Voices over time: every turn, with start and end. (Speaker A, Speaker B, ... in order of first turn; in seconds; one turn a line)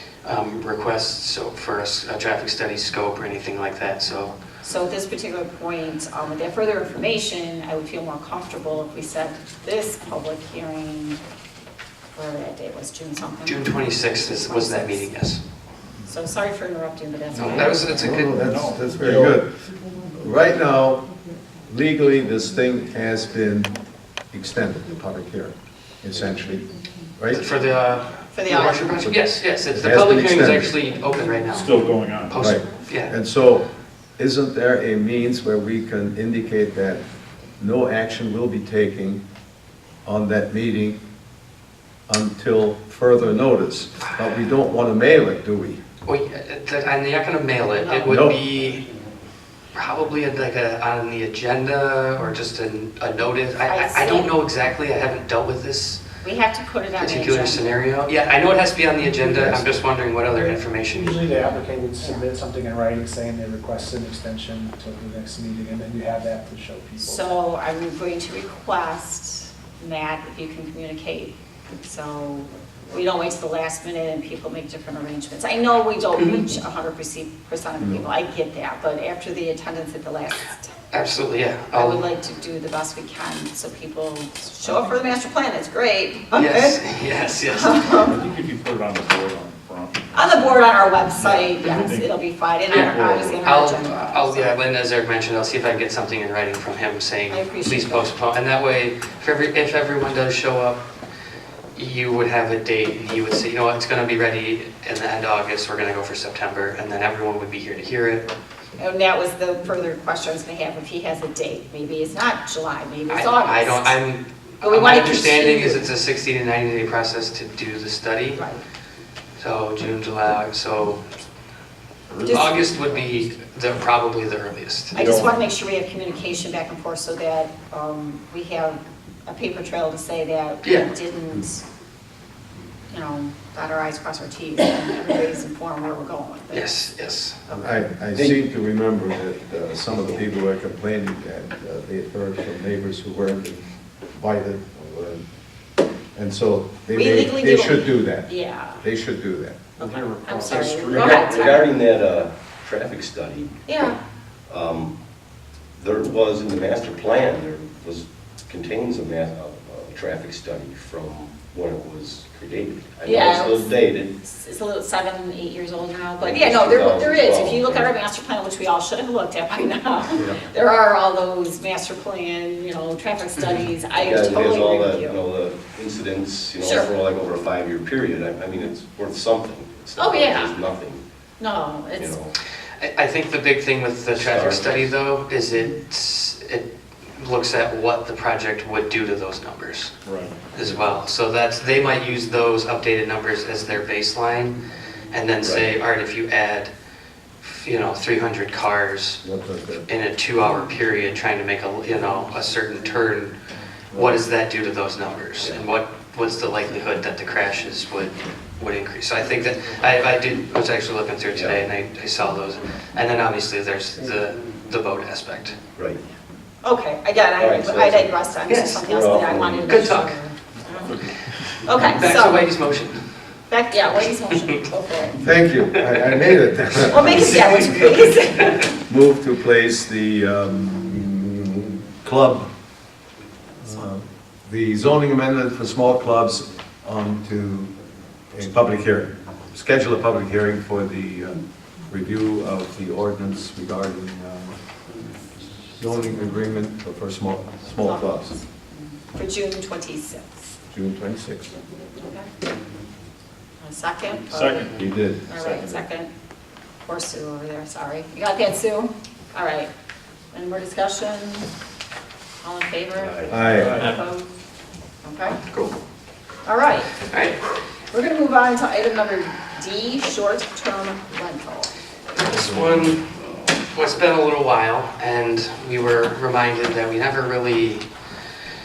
Speaker A: 0.2-4.3
Speaker B: 4.6-11.2
Speaker B: 12.1-15.1
Speaker A: 13.4-15.4
Speaker B: 16.1-18.1
Speaker A: 17.3-18.5
Speaker C: 17.9-19.5
Speaker D: 18.4-19.3
Speaker C: 20.2-21.1
Speaker C: 21.7-23.8
Speaker C: 24.3-26.7
Speaker C: 27.2-27.4
Speaker A: 27.3-33.1
Speaker B: 28.3-29.1
Speaker C: 29.1-30.7
Speaker D: 31.5-32.4
Speaker C: 32.4-33.7
Speaker C: 34.2-37.0
Speaker C: 37.6-39.2
Speaker C: 40.0-41.0
Speaker C: 42.1-45.8
Speaker A: 46.0-48.8
Speaker B: 47.8-48.2
Speaker C: 48.0-48.4
Speaker A: 49.7-56.0
Speaker B: 53.7-54.3
Speaker B: 56.2-58.2
Speaker A: 57.0-61.3
Speaker C: 59.2-59.8
Speaker E: 60.3-67.1
Speaker B: 62.0-62.3
Speaker B: 67.0-80.7
Speaker C: 77.8-78.0
Speaker A: 80.9-82.1
Speaker B: 81.7-88.2
Speaker A: 86.3-87.9
Speaker D: 88.0-92.2
Speaker B: 90.1-94.5
Speaker A: 92.7-100.8
Speaker D: 92.7-93.4
Speaker B: 97.3-98.2
Speaker A: 101.8-108.3
Speaker B: 108.8-114.0
Speaker A: 113.1-118.4
Speaker B: 114.6-115.8
Speaker B: 118.3-118.6
Speaker A: 119.4-121.0
Speaker D: 122.2-122.8
Speaker B: 122.2-122.6
Speaker A: 122.2-125.0
Speaker B: 124.9-131.6
Speaker D: 124.9-125.3
Speaker B: 132.9-136.9
Speaker A: 136.5-137.4
Speaker B: 137.5-137.8
Speaker C: 137.5-145.2
Speaker F: 138.1-138.4
Speaker C: 146.2-149.7
Speaker B: 146.9-148.8
Speaker B: 149.8-151.7
Speaker D: 149.8-151.1
Speaker F: 150.5-153.6
Speaker B: 153.7-154.0
Speaker F: 154.5-155.0
Speaker F: 155.8-164.2
Speaker B: 163.0-175.2
Speaker F: 166.2-167.9
Speaker F: 173.9-181.0
Speaker B: 176.6-176.9
Speaker B: 180.0-180.5
Speaker B: 181.4-182.2
Speaker F: 182.0-182.3
Speaker A: 182.8-189.9
Speaker F: 184.1-184.9
Speaker D: 190.0-190.7
Speaker A: 190.5-194.6
Speaker A: 195.1-196.7
Speaker A: 197.4-199.2
Speaker C: 199.2-199.8
Speaker A: 199.9-203.3
Speaker A: 203.9-215.6
Speaker F: 205.4-205.6
Speaker F: 211.3-211.6
Speaker B: 216.6-221.0
Speaker F: 217.4-218.1
Speaker A: 218.5-218.8
Speaker F: 218.8-220.0
Speaker A: 219.7-220.2
Speaker D: 220.8-221.2
Speaker B: 221.6-222.5
Speaker A: 221.7-223.1
Speaker B: 223.5-225.3
Speaker C: 225.2-227.7
Speaker A: 225.8-226.2
Speaker B: 226.9-228.7
Speaker A: 227.1-228.6
Speaker C: 228.9-232.5
Speaker C: 233.6-237.7
Speaker C: 238.3-244.6
Speaker C: 245.8-248.3
Speaker B: 247.8-250.5
Speaker C: 250.7-251.5
Speaker B: 252.0-252.3
Speaker B: 253.6-256.1
Speaker D: 254.3-254.8
Speaker C: 254.7-255.3
Speaker D: 255.3-255.8
Speaker B: 256.8-259.7
Speaker B: 260.3-261.5
Speaker B: 262.4-264.2
Speaker F: 263.0-263.6
Speaker C: 263.3-263.9
Speaker D: 263.5-263.9
Speaker B: 265.0-265.4
Speaker A: 265.5-265.8
Speaker B: 266.4-267.0
Speaker A: 267.1-267.4
Speaker B: 267.9-271.7
Speaker A: 272.2-273.1
Speaker C: 272.2-273.0
Speaker A: 273.7-277.9